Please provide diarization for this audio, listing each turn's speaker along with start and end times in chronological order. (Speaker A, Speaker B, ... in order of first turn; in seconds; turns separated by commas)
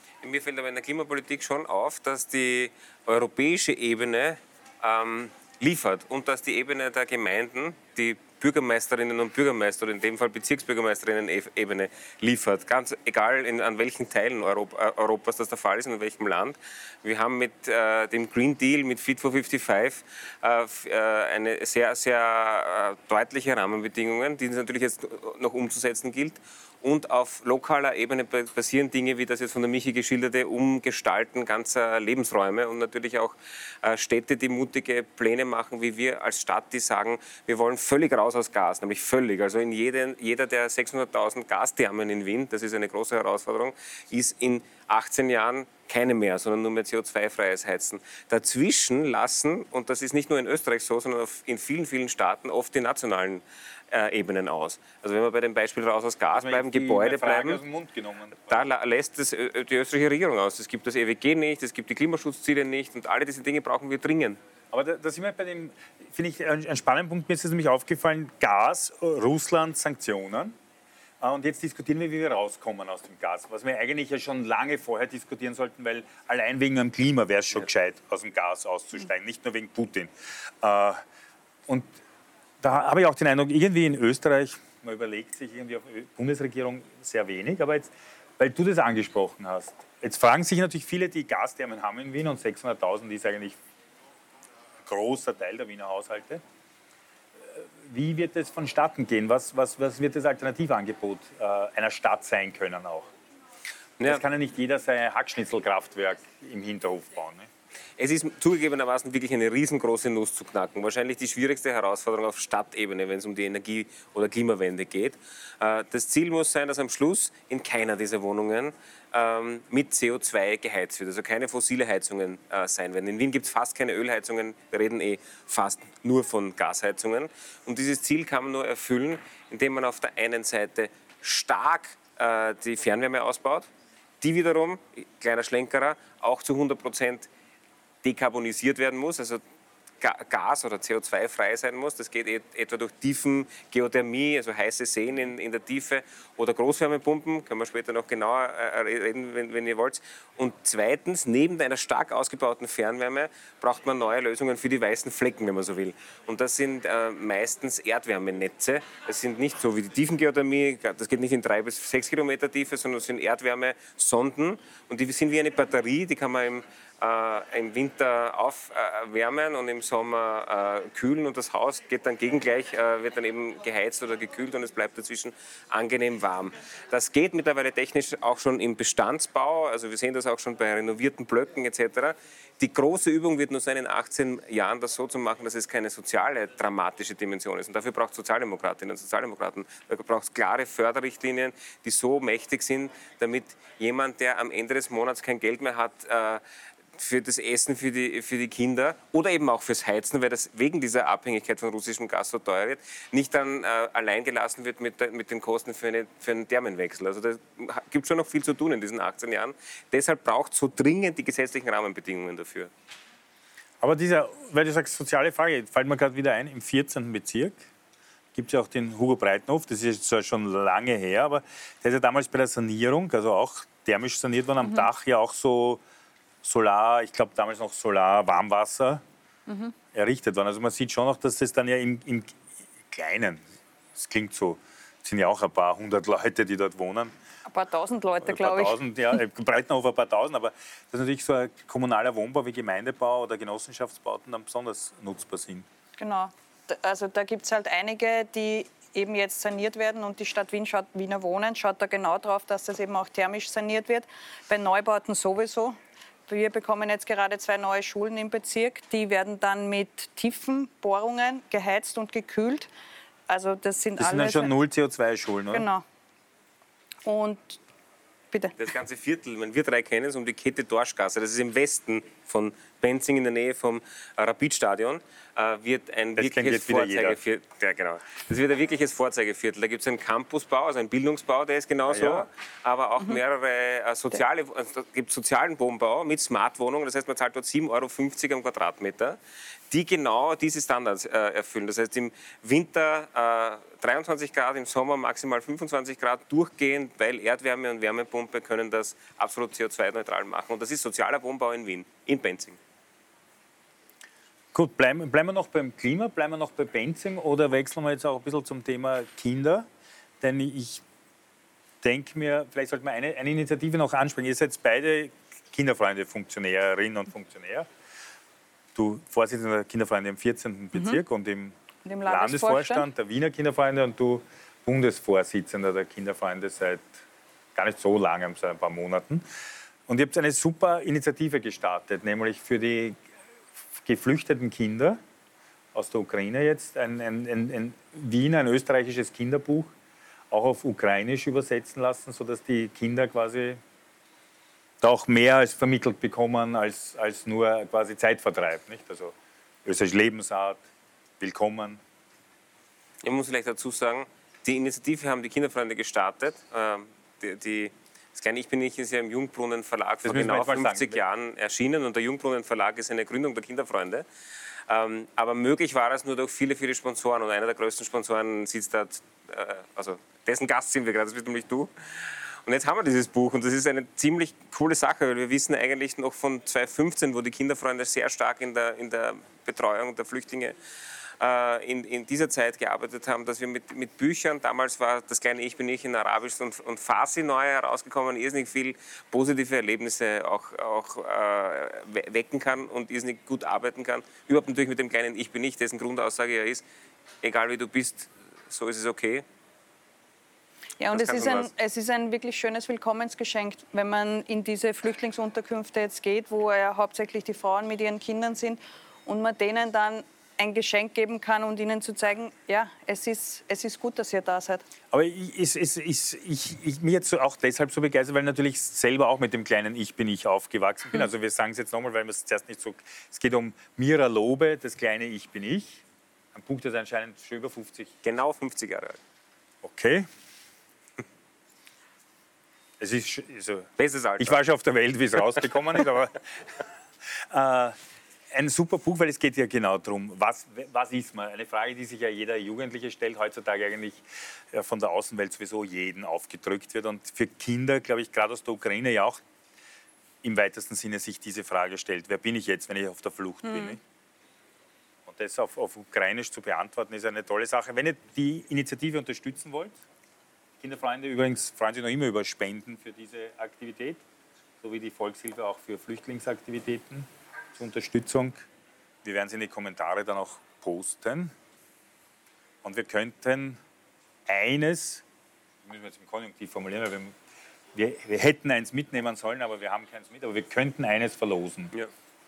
Speaker A: 0.2-57.6, Speaker B: 56.3-58.6, Speaker A: 58.5-64.4, Speaker B: 64.7-70.6, Speaker B: 71.2-80.1, Speaker B: 80.6-81.0, Speaker B: 82.6-93.5, Speaker B: 94.8-96.4, Speaker B: 97.5-103.1, Speaker B: 104.0-107.5, Speaker A: 108.0-133.7, Speaker A: 134.2-137.3, Speaker A: 138.0-139.4, Speaker A: 140.0-196.4, Speaker A: 197.0-212.7, Speaker B: 213.8-217.6, Speaker B: 218.3-225.8, Speaker B: 226.4-229.0, Speaker C: 229.5-229.7, Speaker B: 229.9-232.4, Speaker B: 232.9-233.4, Speaker B: 233.9-237.1, Speaker C: 237.5-238.8, Speaker B: 238.2-245.7, Speaker C: 246.0-255.8, Speaker C: 256.3-262.7, Speaker C: 263.3-264.5, Speaker B: 264.0-265.7, Speaker C: 265.5-265.8, Speaker C: 267.1-267.6, Speaker A: 268.6-289.2, Speaker B: 276.2-277.2, Speaker B: 281.9-282.3, Speaker A: 289.7-302.6, Speaker B: 304.5-309.7, Speaker B: 310.2-310.8, Speaker B: 311.8-317.7, Speaker B: 318.8-321.6, Speaker C: 320.8-321.0, Speaker C: 321.8-322.9, Speaker B: 322.1-327.0, Speaker B: 327.6-329.2, Speaker B: 329.9-333.0, Speaker B: 333.8-335.0, Speaker B: 335.7-339.7, Speaker B: 340.3-343.6, Speaker B: 344.8-349.1, Speaker B: 349.6-350.6, Speaker B: 351.2-351.8, Speaker A: 353.0-364.1, Speaker B: 360.0-361.0, Speaker A: 364.7-380.6, Speaker A: 381.2-396.6, Speaker A: 397.2-399.2, Speaker C: 400.8-414.6, Speaker A: 400.9-401.5, Speaker B: 414.9-425.8, Speaker B: 426.3-427.9, Speaker A: 428.0-429.0, Speaker B: 429.6-430.1, Speaker B: 432.8-436.4, Speaker A: 433.8-434.4, Speaker B: 437.1-437.8, Speaker B: 438.3-449.2, Speaker B: 450.2-453.8, Speaker C: 453.5-453.8, Speaker B: 455.1-459.8, Speaker B: 460.6-464.0, Speaker B: 464.6-468.4, Speaker B: 469.0-471.3, Speaker B: 472.6-473.6, Speaker B: 474.3-475.0, Speaker B: 475.6-477.1, Speaker B: 477.7-481.7